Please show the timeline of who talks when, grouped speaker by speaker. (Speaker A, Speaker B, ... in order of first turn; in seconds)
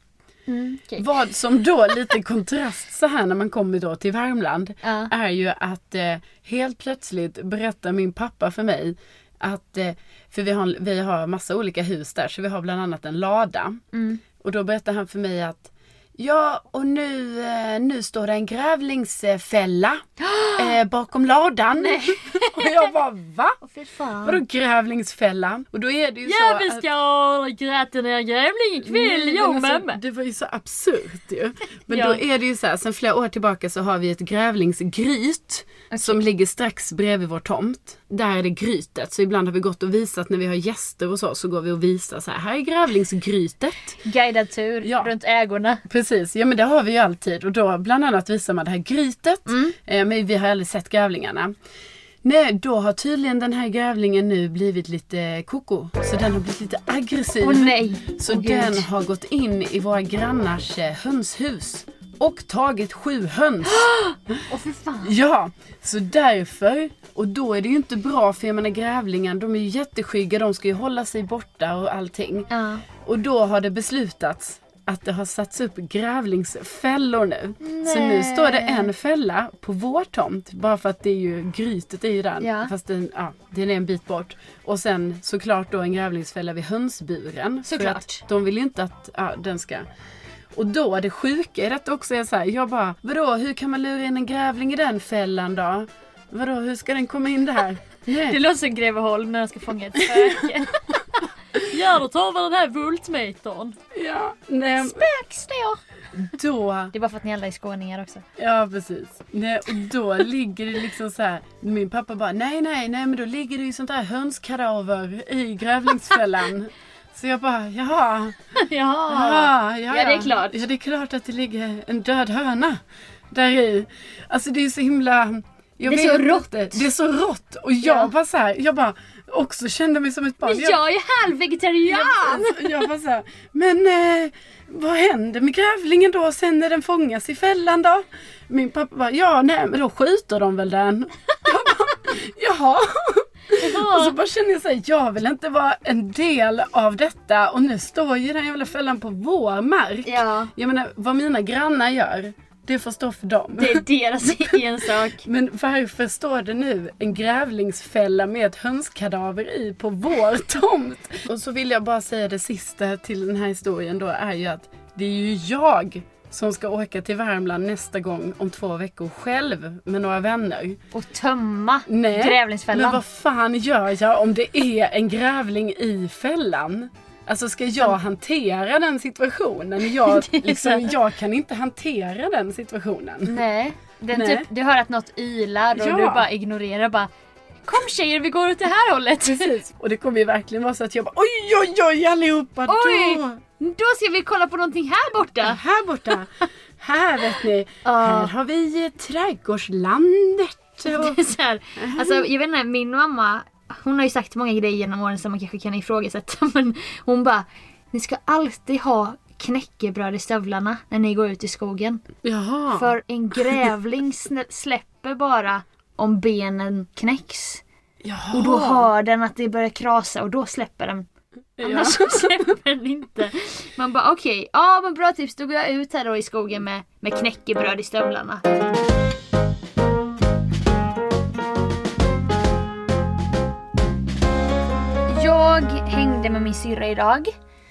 Speaker A: 0.5-1.1, 4.8-5.1, 13.9-14.2, 20.2-20.8, 21.8-22.9, 23.6-24.4, 26.3-30.0, 31.9-32.2, 35.9-36.2, 44.0-45.8, 49.5-49.8, 57.4-58.9, 63.6-65.2, 72.5-72.8, 77.6-78.9, 82.4-82.7, 87.7-88.2, 98.1-103.8, 104.8-105.8, 106.9-108.2, 118.6-120.6, 125.8-126.9, 127.8-128.1, 130.4-132.9, 143.5-144.2, 150.1-150.5, 153.6-155.3, 170.9-173.0, 179.8-180.9, 183.3-187.1, 187.7-189.5, 192.7-195.6, 197.8-198.3, 200.9-212.0, 212.7-217.6, 218.3-221.1, 221.6-228.4, 235.1-237.3
Speaker B: 1.0-13.8, 14.4-20.0, 20.6-23.6, 24.2-26.9, 28.8-44.0, 44.8-45.1, 45.9-51.5, 52.2-64.4, 65.0-72.5, 73.0-89.8, 90.5-98.4, 100.0-100.5, 103.9-105.0, 106.3-106.9, 108.4-118.4, 119.1-122.8, 123.3-130.8, 131.9-154.6, 155.2-170.8, 171.9-183.4, 184.1-184.5, 185.8-186.3, 189.2-193.4, 195.4-201.2, 201.8-202.3, 212.2-212.9, 218.0-218.9, 221.6-222.4